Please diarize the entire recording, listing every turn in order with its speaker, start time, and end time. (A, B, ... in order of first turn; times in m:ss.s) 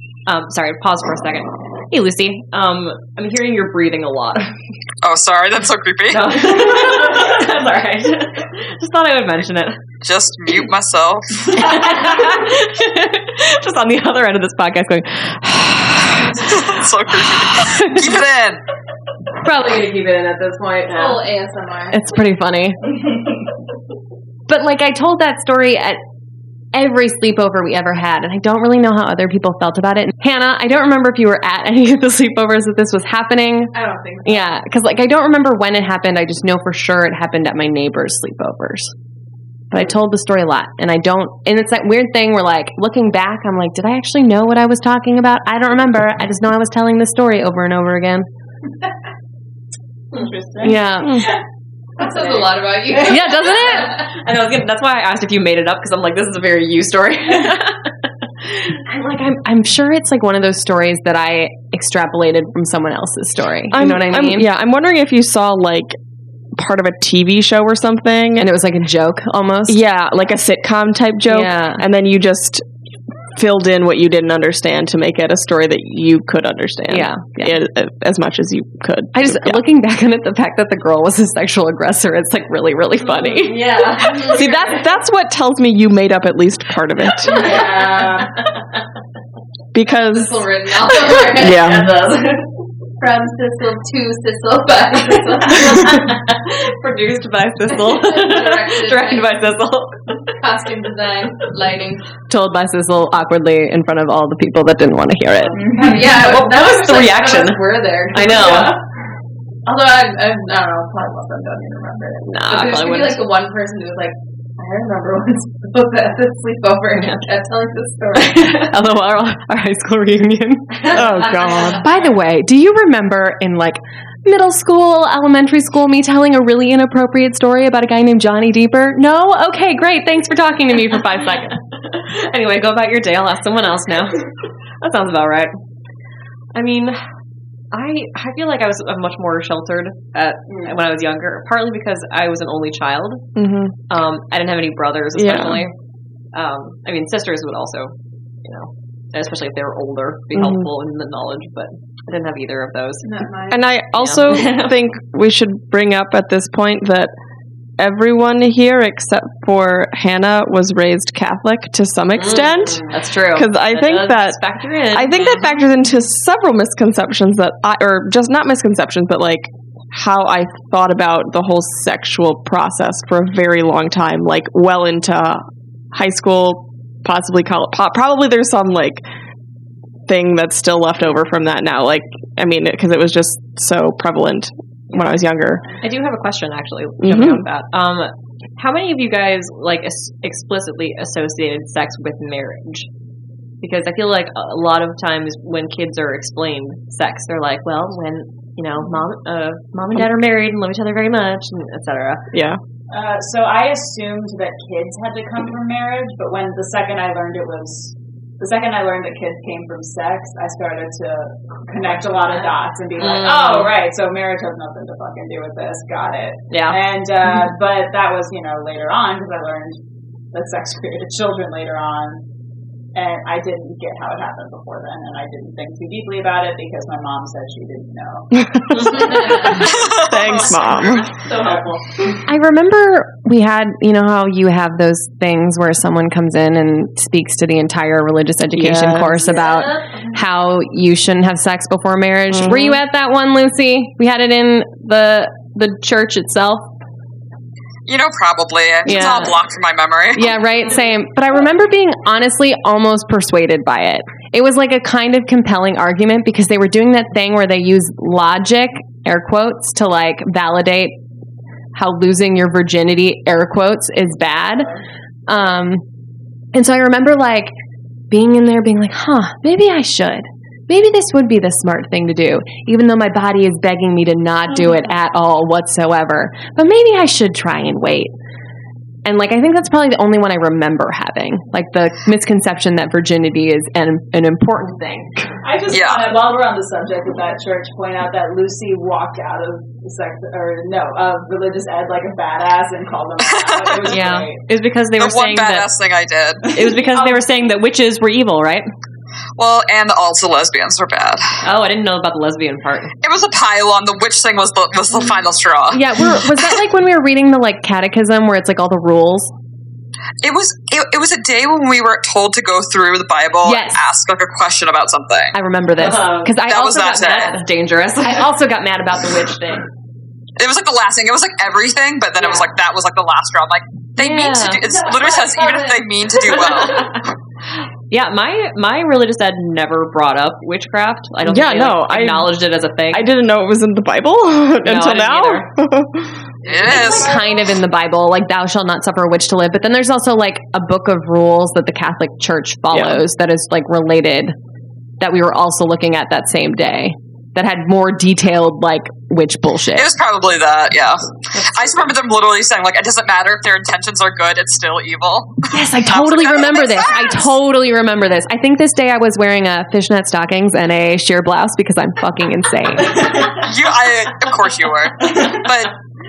0:00.3-0:04.5 A
0:05.0-0:06.5 B
0:06.1-0:09.8 A
0:10.0-0:11.8 B
0:11.5-0:16.5 A
0:16.3-0:18.6 B
0:19.4-0:21.2 C
0:20.9-0:22.0 D
0:21.9-0:22.8 C
0:24.5-0:26.0 C
0:26.7-0:33.7 C
0:33.7-0:34.6 D
0:34.2-0:38.9 C
0:39.7-0:48.3 C
0:50.1-0:50.8 E
0:50.6-0:51.3 C
0:52.0-0:54.1 D
0:52.0-0:57.9 A
0:53.0-0:54.0 C
0:58.4-0:58.8 A
0:58.9-1:04.5 C
1:03.7-1:06.0 F
1:06.6-1:08.5 F
1:08.4-1:09.8 C
1:09.7-1:12.6 F
1:11.3-1:11.8 C
1:13.4-1:19.6 F
1:16.9-1:17.6 C
1:19.1-1:23.7 C
1:23.2-1:24.7 A
1:23.9-1:24.7 D
1:24.3-1:27.6 F
1:27.2-1:28.4 D
1:27.3-1:27.8 A
1:29.7-1:31.9 F
1:29.9-1:32.1 D
1:31.6-1:32.4 A
1:33.0-1:36.2 D
1:35.5-1:40.2 A
1:37.7-1:39.3 D
1:40.3-1:42.1 D
1:42.3-1:45.6 C
1:45.6-1:46.1 E
1:45.7-1:48.8 D
1:45.8-1:48.8 A
1:49.7-1:58.7 D
1:52.3-1:52.6 C
1:52.5-1:53.2 A
1:58.3-2:11.6 C
2:00.9-2:02.0 D
2:00.9-2:01.3 A
2:00.9-2:01.8 F
2:11.9-2:14.3 A
2:14.8-2:15.5 A
2:16.5-2:17.0 A
2:17.7-2:23.2 A
2:23.4-2:23.8 F
2:23.9-2:25.7 A
2:25.2-2:25.7 F
2:26.3-2:27.9 A
2:28.4-2:33.1 A
2:30.4-2:30.7 F
2:33.0-2:33.6 D
2:33.5-2:37.1 F
2:34.0-2:34.8 A
2:37.8-2:44.4 F
2:42.2-2:45.6 A
2:44.9-2:59.0 F
3:00.1-3:05.6 F
3:04.9-3:05.2 A
3:05.8-3:12.9 A
3:07.0-3:07.5 F
3:13.6-3:22.2 A
3:22.3-3:22.6 F
3:22.9-3:39.8 E
3:32.3-3:33.8 A
3:36.5-3:36.8 A
3:40.3-3:42.2 E
3:42.9-3:48.3 E
3:48.4-3:51.1 F
3:48.7-3:49.7 A
3:48.9-3:49.6 E
3:49.0-3:49.5 D
3:49.6-3:50.5 B
3:50.4-3:51.8 A
3:51.4-3:51.6 E
3:52.3-4:06.7 C
3:58.6-3:59.4 F
4:02.3-4:02.8 F
4:07.9-4:10.4 B
4:08.9-4:09.4 C
4:10.1-4:21.0 C
4:21.7-4:24.7 C
4:25.3-4:25.8 C
4:26.5-4:27.5 C
4:28.1-4:38.1 C
4:39.0-4:45.1 C
4:45.4-4:54.4 E
4:45.7-4:46.1 B
4:53.2-4:54.0 B
4:53.9-4:55.7 A
4:55.0-4:56.5 B
4:56.5-4:58.7 A
4:56.5-4:57.3 E
4:59.4-5:01.4 B
5:01.4-5:02.9 A
5:03.0-5:05.8 B
5:05.7-5:09.3 C
5:10.2-5:15.4 B
5:13.4-5:13.8 C
5:15.3-5:17.4 C
5:15.8-5:16.4 A
5:16.4-5:17.4 B
5:17.0-5:18.3 A
5:18.0-5:19.7 C
5:20.4-5:27.0 B
5:22.2-5:22.5 A
5:24.0-5:24.6 A
5:24.6-5:26.8 D
5:26.3-5:27.0 A
5:27.9-5:33.1 A
5:31.2-5:32.3 F
5:32.9-5:36.2 F
5:34.6-5:35.5 A
5:36.5-5:37.2 B
5:36.5-5:37.4 D
5:36.7-5:44.4 C
5:42.7-5:43.0 F
5:45.0-5:49.9 C
5:49.7-5:57.3 B
5:51.4-5:51.8 A
5:55.5-6:03.2 C
6:03.2-6:05.7 B